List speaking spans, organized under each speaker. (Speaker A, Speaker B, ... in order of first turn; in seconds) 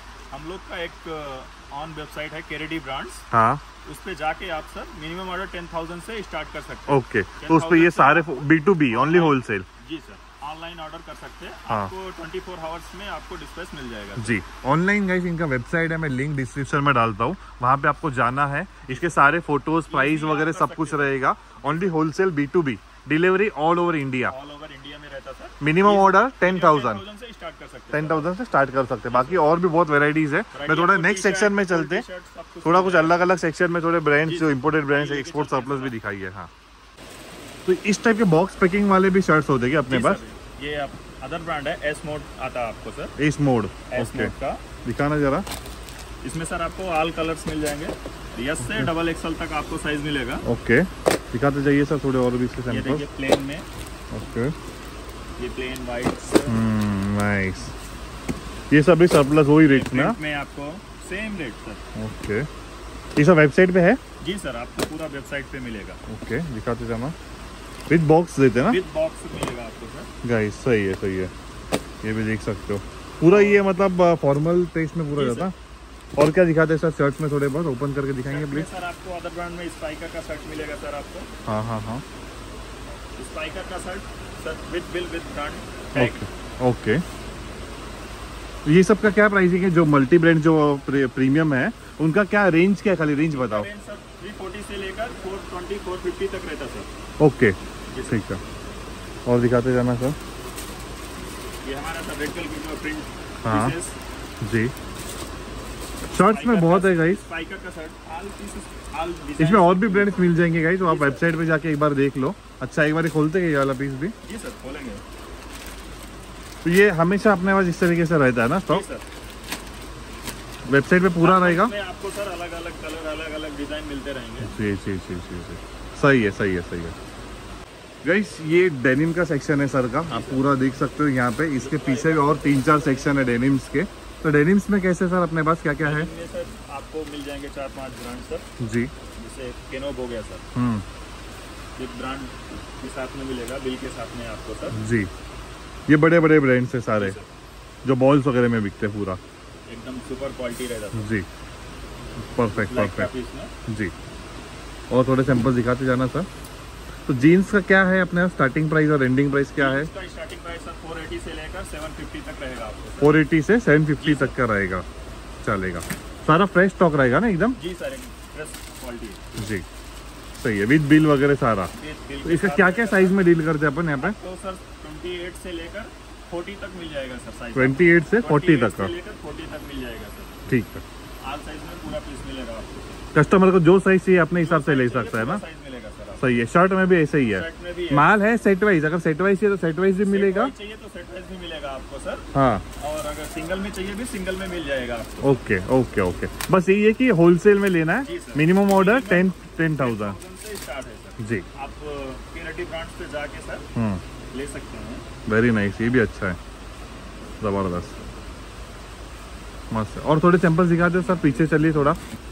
Speaker A: 0.3-3.2, 3.8-14.4, 18.9-19.2, 19.9-22.0, 24.2-28.3, 29.1-29.5, 30.5-33.2, 34.2-36.0, 39.9-43.1, 43.9-44.6, 46.2-50.4, 52.7-53.7, 55.4-56.6, 59.6-61.8, 64.2-66.0, 68.6-70.1, 73.3-73.7, 75.1-75.5, 78.3-81.3, 83.2-86.2, 93.3-96.9, 97.9-98.2, 101.6-104.0, 106.3-111.2, 114.2-115.0, 118.7-119.0, 121.2-124.6, 130.1-130.4, 131.6-133.2, 135.8-138.5, 139.2-140.4, 141.8-144.8, 146.9-147.3, 149.7-151.1, 152.5-153.5, 159.6-163.2, 164.0-164.3, 167.6-169.3, 171.7-173.3, 174.0-180.4, 181.2-183.0, 184.4-186.3, 187.3-188.1, 190.0-195.3, 198.0-203.7, 204.3-205.1
Speaker B: 3.3-3.6, 6.9-9.7, 14.2-24.3, 25.6-27.0, 27.9-32.0, 32.6-36.5, 37.6-40.2, 43.2-44.3, 44.8-45.5, 48.6-48.9, 50.4-53.0, 54.1-54.5, 56.5-57.7, 58.7-60.2, 61.9-62.5, 63.1-64.0, 66.1-67.1, 67.9-68.8, 70.2-71.3, 72.0-75.5, 76.2-78.7, 81.5-82.0, 85.9-87.0, 88.6-93.7, 97.2-98.4, 99.2-100.2, 103.4-103.8, 104.4-104.7, 106.1-107.2, 109.4-114.1, 116.6-118.8, 120.7-121.7, 124.4-126.9, 128.0-136.1, 138.6-138.9, 140.5-140.8, 144.7-145.1, 145.9-147.2, 147.8-149.2, 150.9-151.2, 152.3-153.1, 153.7-153.9, 154.9-156.3, 157.1-159.9, 163.0-164.8, 165.4-167.6, 169.4-169.6, 170.3-171.7, 172.2-174.2, 177.5-178.9, 180.5-180.8, 183.1-185.4, 186.2-190.5, 192.3-192.6, 195.2-200.2, 201.2-201.4, 203.7-204.0, 205.3-206.4, 207.4-208.0, 209.7-212.0